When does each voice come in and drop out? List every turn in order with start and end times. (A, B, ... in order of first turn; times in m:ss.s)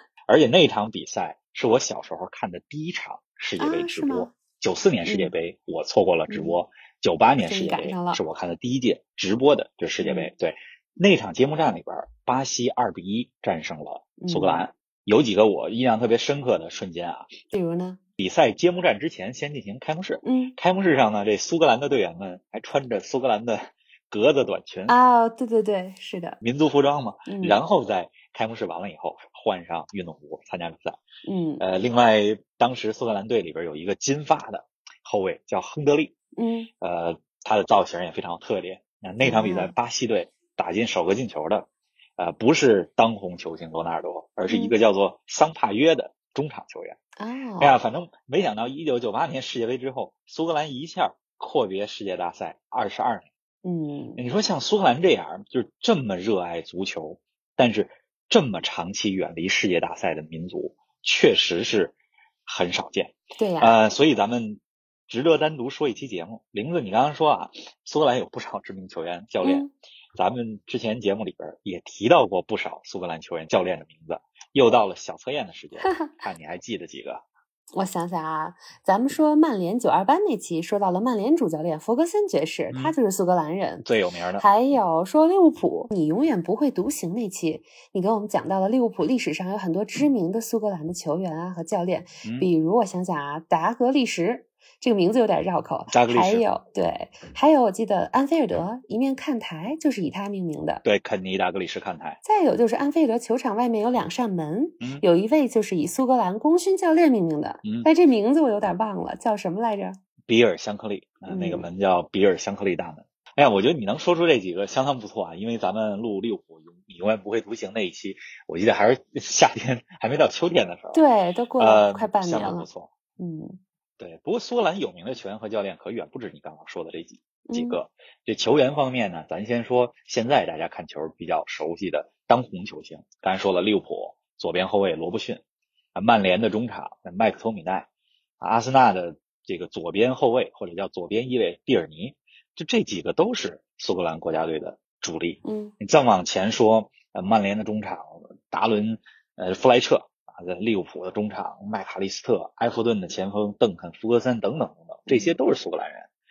0:00.3-0:17.4 A
0:03.6-0:04.3 B
0:05.0-0:05.3 B
0:06.3-0:06.6 B
0:07.4-0:08.2 B
0:10.0-0:10.3 B
0:14.2-0:14.7 B
0:17.5-0:18.0 B
0:18.2-0:25.0 A
0:20.2-0:20.6 B
0:24.9-0:26.4 B
0:26.4-0:31.0 A
0:27.3-0:27.6 B
0:31.3-0:31.6 B
0:31.6-0:36.2 A
0:36.4-0:36.7 B
0:36.8-0:47.0 A
0:39.2-0:39.7 B
0:44.5-0:44.7 B
0:47.2-0:47.8 B
0:47.6-0:53.3 A
0:53.6-0:54.2 B
0:54.2-1:02.0 A
1:02.5-1:17.2 A
1:03.4-1:03.8 B
1:09.4-1:09.7 B
1:17.7-1:23.9 B
1:22.7-1:23.0 A
1:23.8-1:24.5 A
1:24.4-1:40.8 B
1:32.2-1:32.5 A
1:35.9-1:36.4 A
1:40.8-1:42.2 A
1:42.2-1:50.0 B
1:47.6-1:47.9 A
1:50.3-2:01.0 A
1:51.3-1:51.7 B
2:00.9-2:02.7 B
2:01.6-2:02.9 A
2:03.2-2:03.6 B
2:04.0-2:15.4 A
2:07.5-2:07.8 B
2:16.0-2:17.9 A
2:18.4-2:36.1 A
2:25.4-2:25.7 B
2:35.1-2:35.3 B